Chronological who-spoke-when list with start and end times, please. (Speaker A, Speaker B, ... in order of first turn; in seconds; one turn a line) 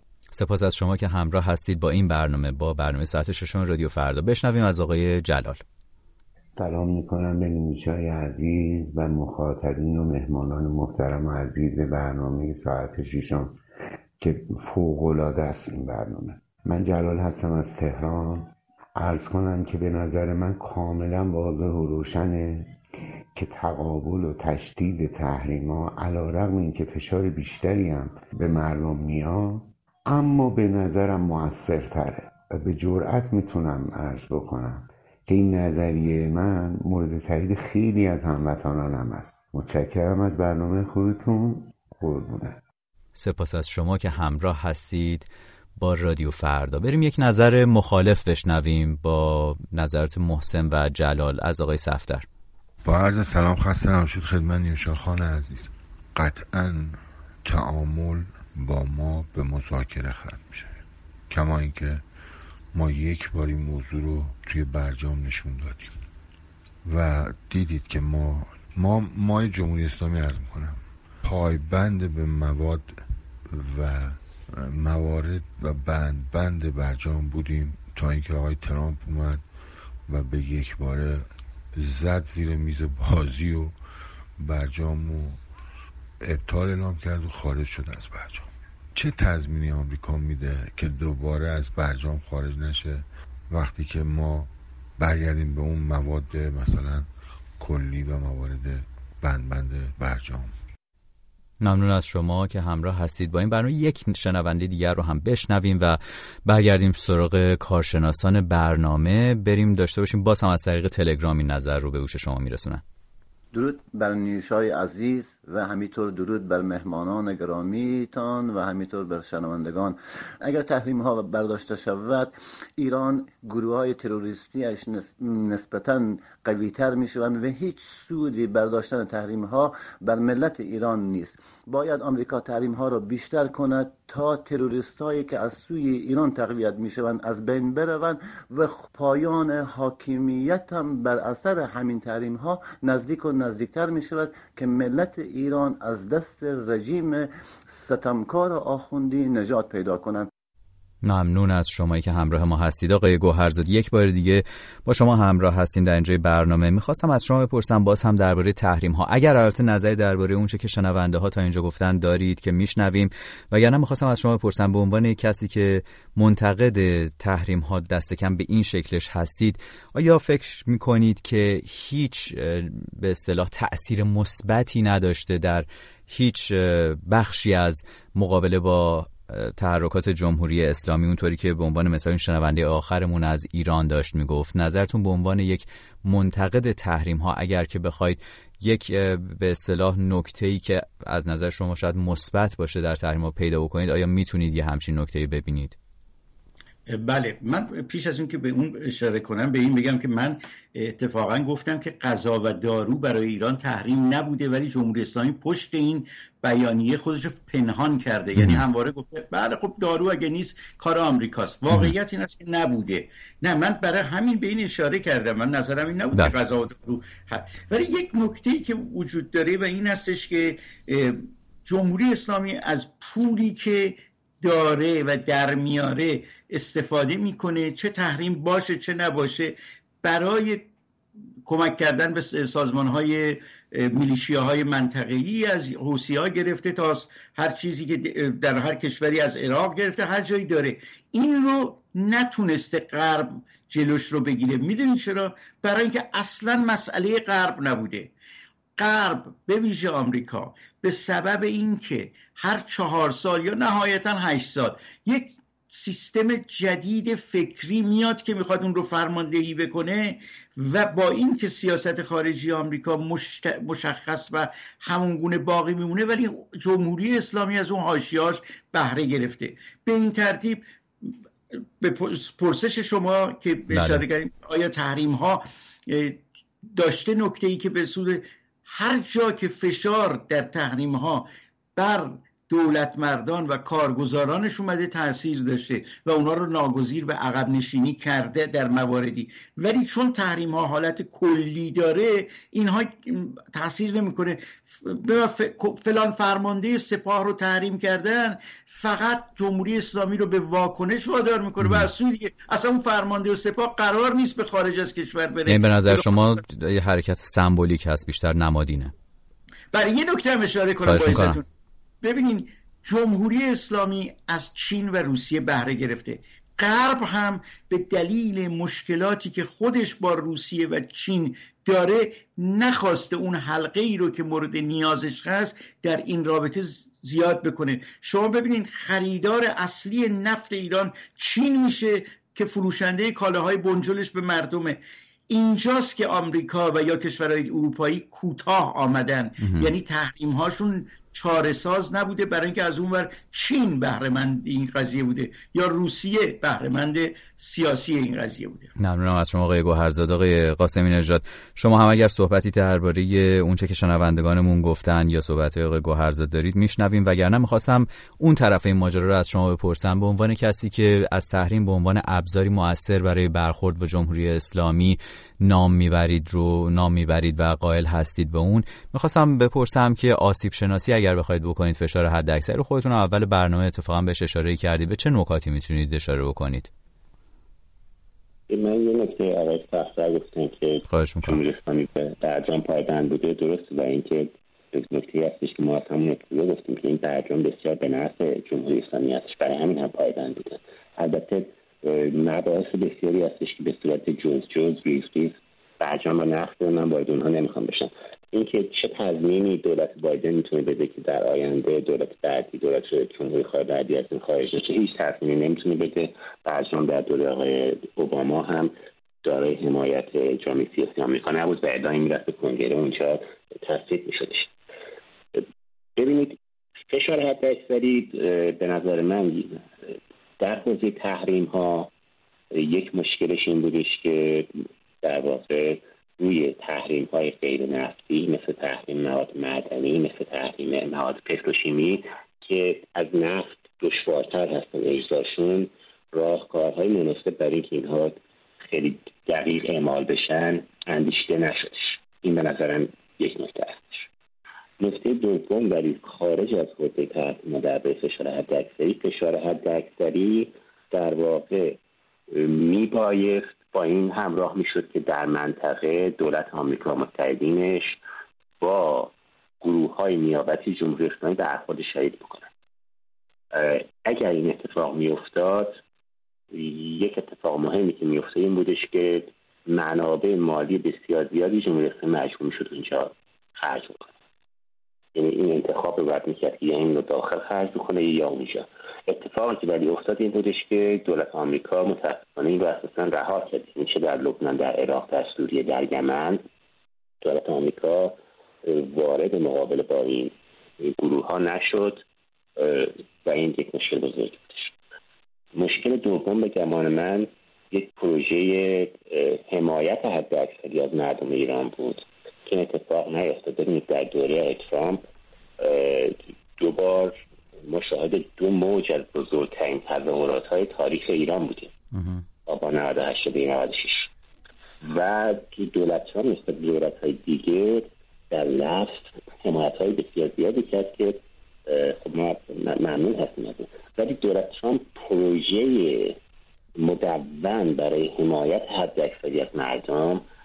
Speaker A: 0.3-5.6
Speaker B: 6.5-13.6
Speaker B: 14.2-22.8
Speaker B: 23.4-42.6
Speaker A: 43.1-52.2
Speaker C: 52.8-62.0
Speaker C: 62.7-65.9
Speaker C: 66.8-73.0
Speaker C: 73.5-79.4
Speaker C: 80.1-83.7
Speaker C: 84.4-85.4
Speaker C: 86.2-100.5
Speaker A: 101.6-112.8
Speaker D: 113.5-150.3
Speaker A: 151.0-195.8
Speaker E: 196.9-230.7
Speaker A: 208.3-208.6
Speaker E: 231.4-248.1
Speaker E: 248.8-271.1
Speaker E: 271.8-306.3
Speaker A: 273.7-274.0
Speaker A: 301.6-301.9
Speaker A: 305.5-308.9
Speaker E: 309.7-311.4
Speaker A: 310.8-311.4
Speaker E: 312.0-334.8
Speaker E: 335.3-348.7
Speaker A: 339.4-339.7
Speaker A: 348.8-376.7
Speaker F: 378.5-408.7
Speaker A: 380.9-381.4
Speaker F: 409.2-414.5
Speaker F: 416.0-416.4
Speaker F: 416.9-419.6
Speaker F: 420.4-421.9
Speaker F: 422.5-424.5
Speaker F: 425.0-444.1
Speaker F: 444.8-451.8
Speaker F: 452.3-458.0
Speaker F: 458.6-462.5
Speaker F: 463.5-465.8
Speaker F: 466.5-474.1
Speaker F: 475.1-486.4
Speaker F: 487.2-492.0
Speaker F: 492.6-494.7
Speaker F: 495.5-505.0
Speaker F: 505.6-507.1
Speaker F: 507.6-511.7
Speaker A: 511.9-512.2
Speaker F: 512.5-514.1
Speaker F: 514.8-526.2
Speaker F: 526.8-530.2